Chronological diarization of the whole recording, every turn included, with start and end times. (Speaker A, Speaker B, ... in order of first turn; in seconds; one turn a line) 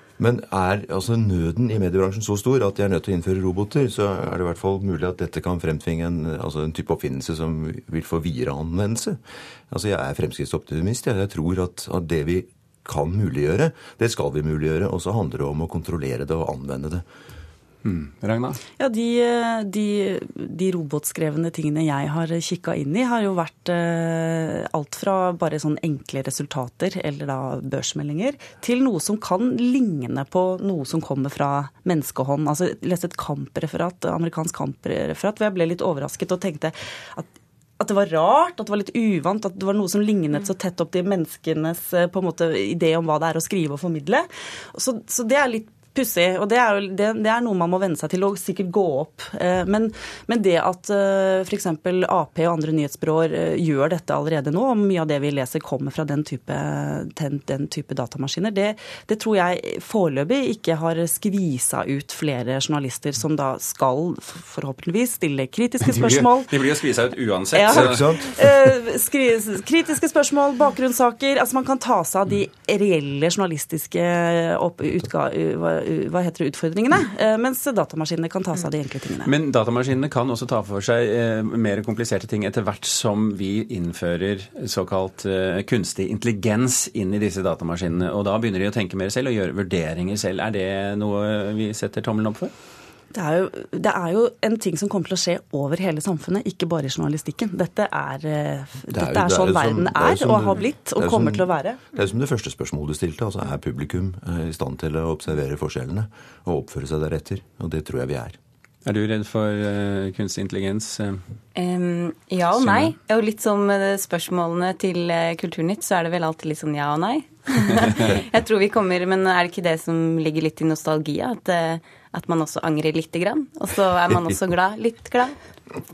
Speaker A: 0.2-17.0
Speaker B: 17.8-18.6
Speaker C: 18.8-66.5
Speaker B: 65.9-68.1
Speaker C: 67.5-79.3
Speaker A: 67.7-68.2
Speaker B: 79.2-92.5
Speaker C: 93.1-101.9
Speaker A: 98.9-108.4
Speaker B: 108.8-111.2
Speaker D: 111.5-125.3
Speaker B: 112.6-112.9